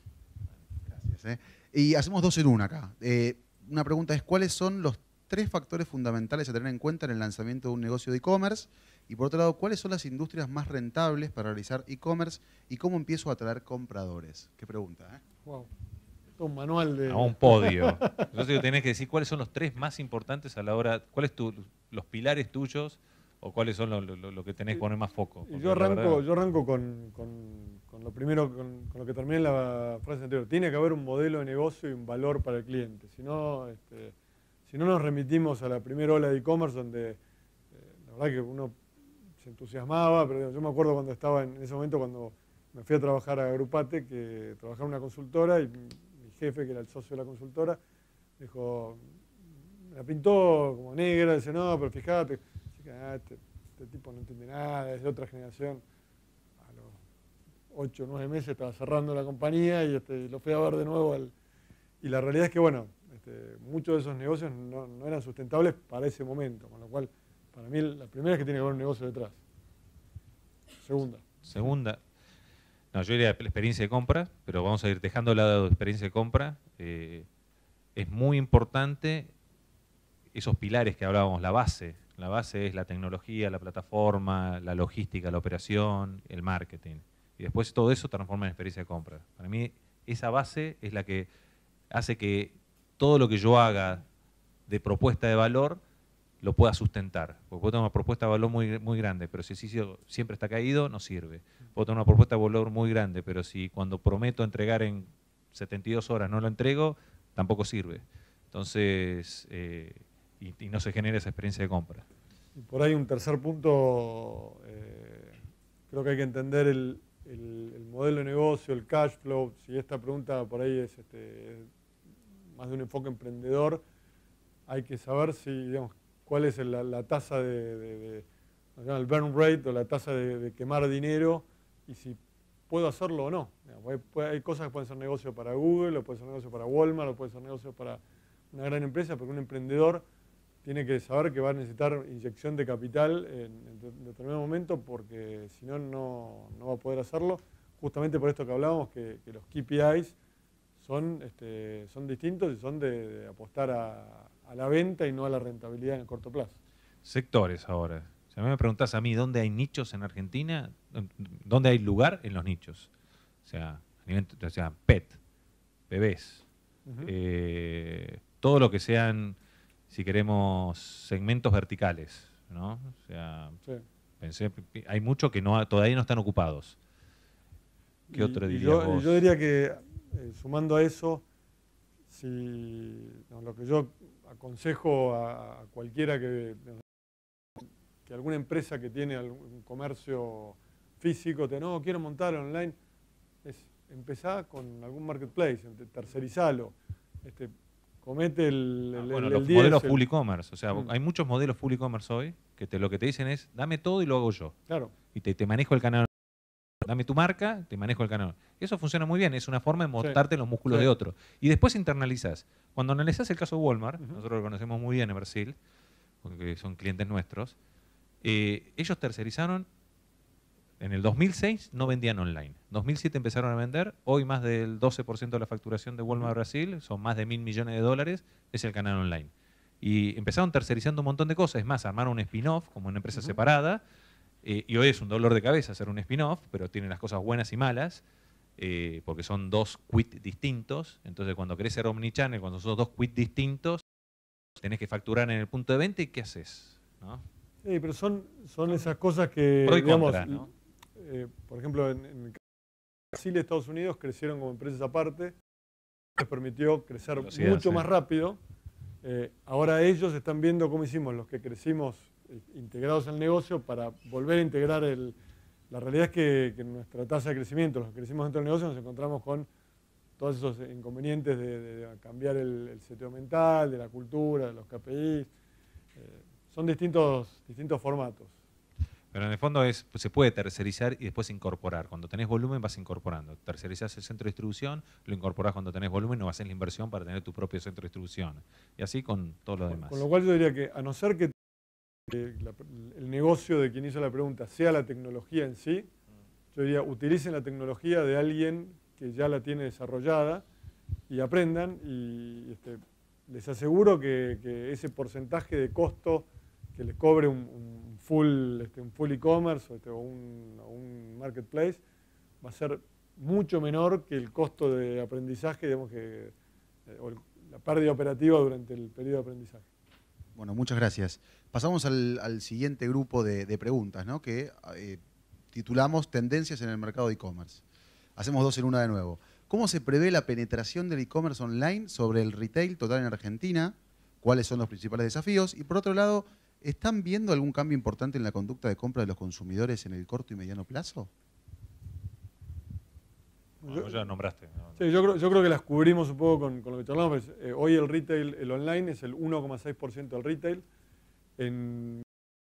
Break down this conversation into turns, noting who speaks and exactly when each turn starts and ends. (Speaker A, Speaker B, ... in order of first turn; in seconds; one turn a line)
Speaker A: 0.9-15.2
Speaker B: 16.4-18.3
Speaker C: 17.1-26.2
Speaker B: 25.4-34.1
Speaker B: 34.7-37.2
Speaker B: 37.7-38.8
Speaker B: 39.4-47.8
Speaker B: 48.4-49.1
Speaker B: 49.9-55.8
Speaker B: 56.6-57.0
Speaker B: 57.7-61.3
Speaker B: 62.0-69.4
Speaker B: 70.8-71.2
Speaker C: 71.5-72.0
Speaker C: 72.9-77.3
Speaker C: 78.0-79.3
Speaker C: 80.3-91.3
Speaker C: 91.9-94.0
Speaker C: 94.7-95.8
Speaker C: 96.4-112.0
Speaker B: 112.5-115.4
Speaker B: 115.9-121.7
Speaker B: 122.5-123.8
Speaker B: 124.7-128.2
Speaker B: 128.8-132.2
Speaker B: 132.7-140.0
Speaker B: 140.6-150.1
Speaker B: 150.8-156.6
Speaker C: 157.0-162.9
Speaker C: 163.4-165.2
Speaker C: 165.9-166.4
Speaker B: 166.8-167.1
Speaker C: 167.0-169.3
Speaker C: 169.9-173.6
Speaker C: 174.2-176.8
Speaker B: 178.1-181.2
Speaker C: 178.1-179.2
Speaker B: 182.1-186.8
Speaker B: 187.6-192.7
Speaker B: 193.4-200.0
Speaker C: 198.9-204.5
Speaker B: 204.7-204.9
Speaker C: 205.1-206.1
Speaker C: 206.8-215.6
Speaker B: 210.0-210.9
Speaker C: 216.2-217.5
Speaker C: 218.2-219.7
Speaker C: 220.8-229.3
Speaker C: 229.8-233.8
Speaker B: 233.1-233.4
Speaker C: 234.4-238.0
Speaker C: 238.6-243.8
Speaker C: 244.6-247.2
Speaker B: 247.6-252.4
Speaker C: 249.6-250.5
Speaker B: 253.1-255.3
Speaker B: 256.2-258.4
Speaker C: 257.1-257.9
Speaker B: 259.0-265.1
Speaker B: 265.7-269.5
Speaker B: 270.2-275.3
Speaker B: 275.9-278.3
Speaker C: 279.1-290.0
Speaker B: 289.7-291.3
Speaker B: 292.1-295.9
Speaker B: 296.5-300.4
Speaker B: 301.1-311.8
Speaker B: 312.4-316.3
Speaker B: 316.9-319.6
Speaker A: 320.3-325.0
Speaker A: 325.5-327.6
Speaker A: 328.2-341.1
Speaker B: 343.6-344.1
Speaker C: 343.7-344.8
Speaker B: 344.8-350.6
Speaker B: 351.4-352.0